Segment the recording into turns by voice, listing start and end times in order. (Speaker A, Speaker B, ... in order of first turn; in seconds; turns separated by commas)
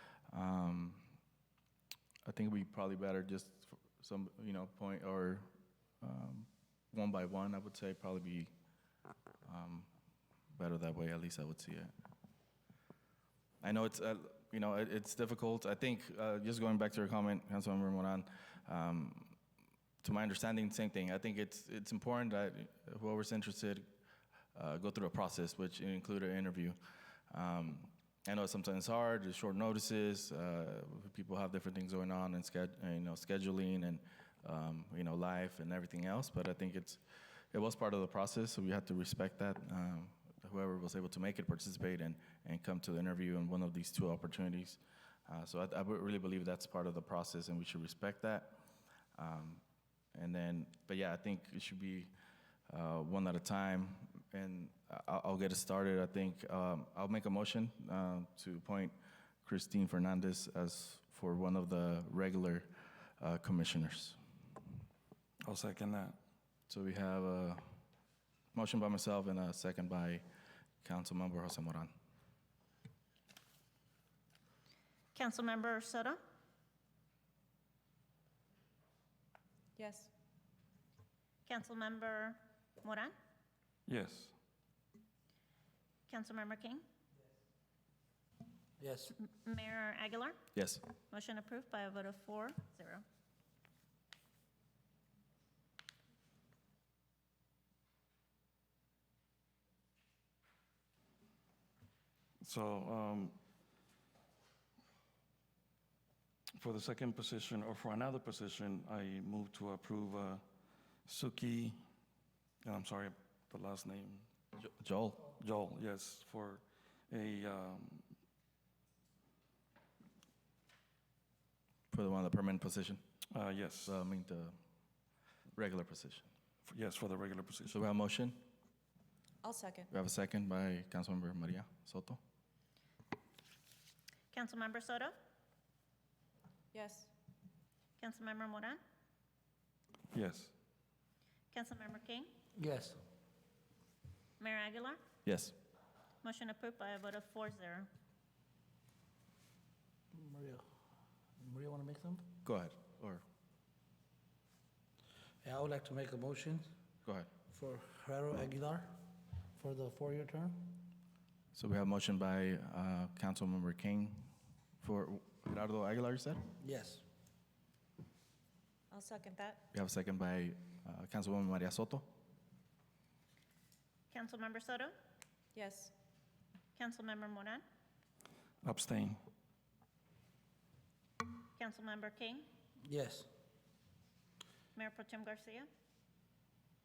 Speaker A: 0.3-1.1, Speaker A: 2.2-5.5, Speaker A: 6.0-8.5, Speaker A: 9.4-9.9, Speaker A: 10.5-11.9, Speaker A: 13.6-19.4, Speaker A: 20.0-23.9, Speaker A: 24.5-26.8, Speaker A: 27.3-37.0, Speaker A: 37.5-48.6, Speaker A: 49.1-49.6, Speaker A: 50.1-52.1, Speaker A: 52.7-62.7, Speaker A: 63.2-64.2, Speaker B: 65.4-66.2, Speaker A: 66.7-67.7, Speaker A: 68.5-70.2, Speaker A: 70.8-71.9, Speaker C: 75.1-76.2, Speaker D: 79.8-80.1, Speaker C: 81.5-83.1, Speaker B: 83.9-84.3, Speaker C: 86.1-86.8, Speaker E: 88.8-89.1, Speaker C: 89.2-90.4, Speaker A: 90.5-90.8, Speaker C: 91.1-93.0, Speaker B: 102.4-103.4, Speaker B: 106.6-110.4, Speaker B: 111.0-111.8, Speaker B: 112.6-114.2, Speaker A: 114.6-115.3, Speaker B: 115.3-118.0, Speaker A: 121.9-123.0, Speaker B: 123.3-124.0, Speaker A: 123.8-124.6, Speaker A: 125.5-126.3, Speaker B: 126.7-127.7, Speaker A: 127.7-128.4, Speaker D: 129.4-129.9, Speaker A: 129.9-132.2, Speaker C: 134.3-135.2, Speaker D: 136.7-137.1, Speaker C: 138.0-138.8, Speaker B: 140.1-140.5, Speaker C: 141.5-142.3, Speaker E: 142.6-143.0, Speaker C: 144.4-145.0, Speaker A: 145.2-145.5, Speaker C: 146.2-147.9, Speaker E: 150.1-150.6, Speaker E: 151.4-152.2, Speaker A: 152.4-153.2, Speaker E: 155.4-156.7, Speaker E: 157.5-159.0, Speaker E: 159.6-160.8, Speaker A: 161.5-164.3, Speaker A: 164.8-166.4, Speaker E: 166.6-167.0, Speaker D: 168.9-169.6, Speaker A: 169.7-172.1, Speaker C: 174.1-174.9, Speaker D: 175.5-175.9, Speaker C: 176.8-177.6, Speaker B: 178.6-179.2, Speaker C: 181.6-182.5, Speaker E: 182.8-183.3, Speaker C: 184.7-185.7